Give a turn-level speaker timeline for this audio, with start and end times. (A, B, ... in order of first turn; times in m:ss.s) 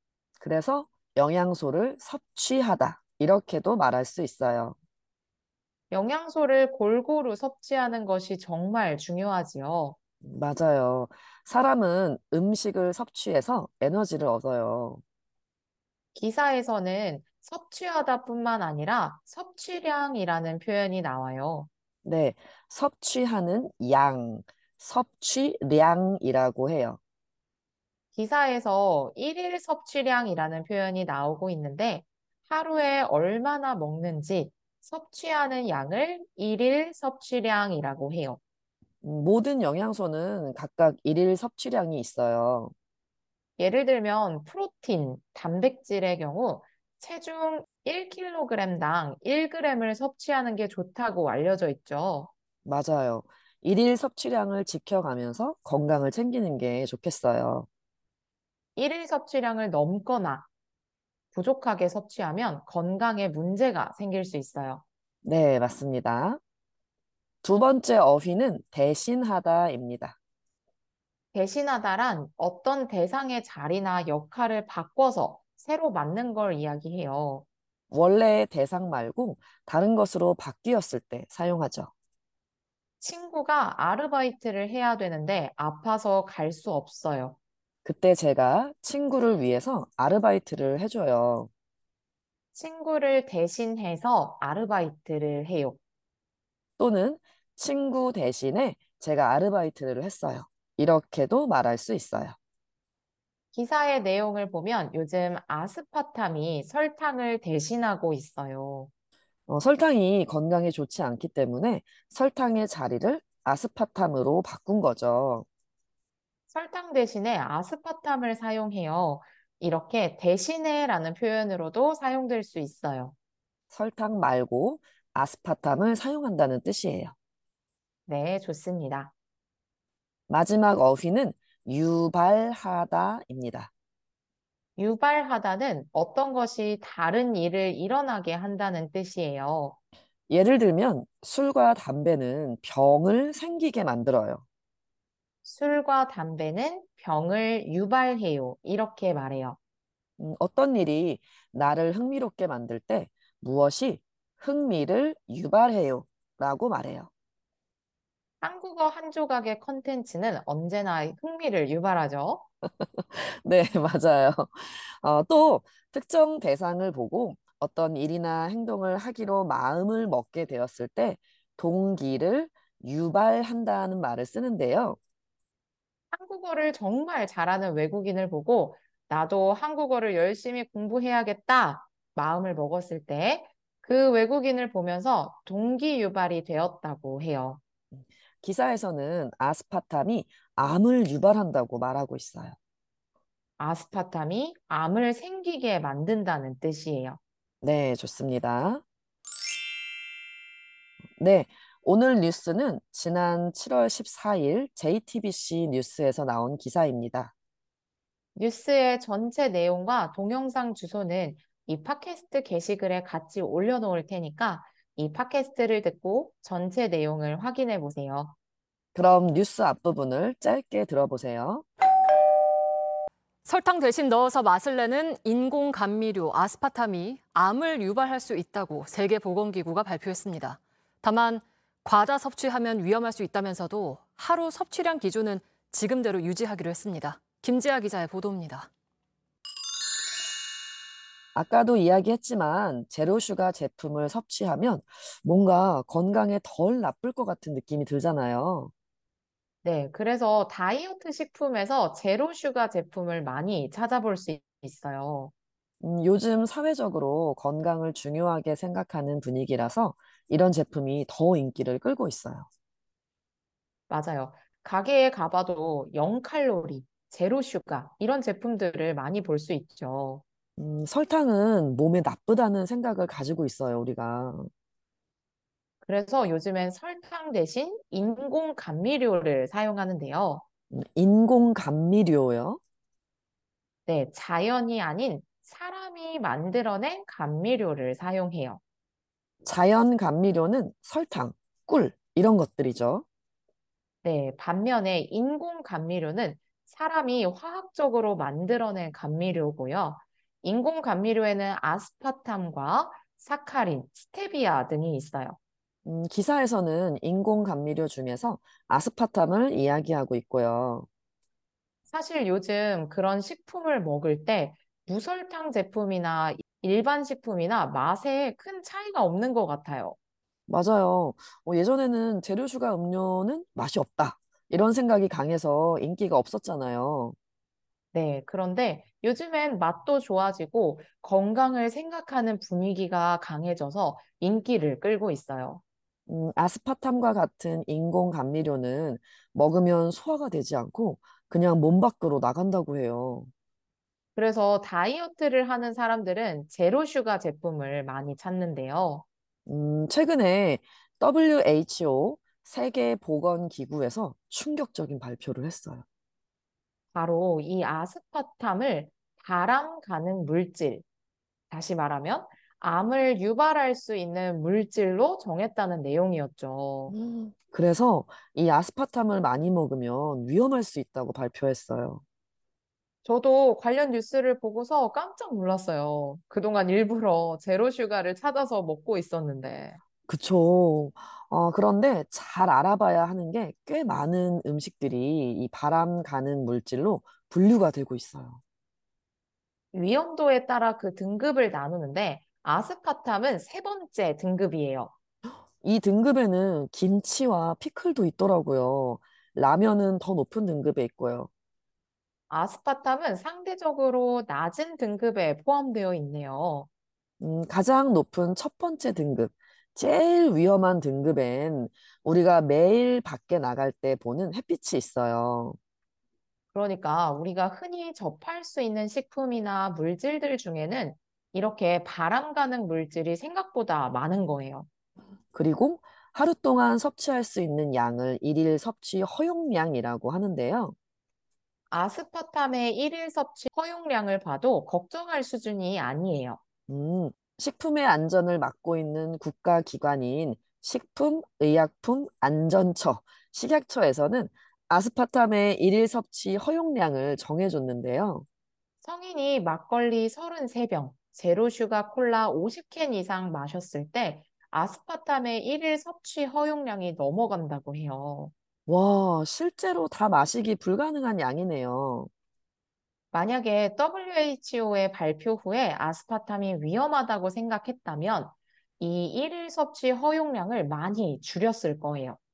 0:00.4-0:04.8 A
0:05.9-0:10.0 B
0:10.2-0:15.0 A
0:16.1-0:21.7 B
0:22.0-0:27.0 A
0:28.1-0:38.4 B
0:39.0-0:42.7 A
0:43.6-0:52.3 B
0:52.6-0:57.7 A
0:58.8-1:00.5 B
1:01.3-1:04.8 B
1:05.2-1:06.4 A
1:07.4-1:10.2 A
1:11.3-1:17.4 B
1:17.9-1:21.9 A
1:23.0-1:27.4 B
1:27.8-1:31.5 A
1:32.5-1:35.8 B
1:36.8-1:42.4 A
1:43.5-1:48.9 B
1:49.5-1:55.4 A
1:56.5-2:03.1 B
2:03.7-2:07.1 A
2:08.1-2:09.1 B
2:10.3-2:13.7 A
2:14.8-2:19.8 B
2:20.3-2:24.4 A
2:25.4-2:29.6 B
2:30.2-2:37.1 A
2:38.4-2:42.4 B
2:42.8-2:55.0 A
2:56.1-3:07.6 B
3:07.9-3:12.6 A
3:13.6-3:17.2 B
3:17.6-3:18.8 A
3:21.2-3:27.3 A
3:28.4-3:38.3 B
3:38.9-3:41.6 A
3:43.4-3:58.7 C
4:01.3-4:08.7 A
4:09.6-4:15.3 B
4:15.8-4:22.5 A
4:23.9-4:30.2 B
4:30.6-4:34.5 A
4:35.8-4:40.4 B
4:40.7-4:42.6 A
4:43.8-4:48.6 B
4:49.4-4:53.0 A
4:54.0-5:05.4 B
5:05.8-5:10.9 A
5:11.9-5:20.0 B
5:20.5-5:27.2 A
5:27.9-5:35.6 B
5:36.1-5:43.3 A
5:44.2-5:49.0 B
5:49.5-5:55.8 A
5:56.9-6:00.8 B
6:01.5-6:06.9 B
6:06.9-6:12.0 A
6:13.0-6:19.8 B
6:20.1-6:28.4 A
6:29.7-6:34.9 B
6:35.6-6:41.3 A
6:42.3-6:46.7 B
6:47.2-6:55.6 A
6:56.5-7:04.7 B
7:05.3-7:10.7 A
7:11.7-7:16.4 B
7:16.7-7:28.2 A
7:28.8-7:38.3 B
7:38.7-7:42.1 A
7:43.1-7:52.2 B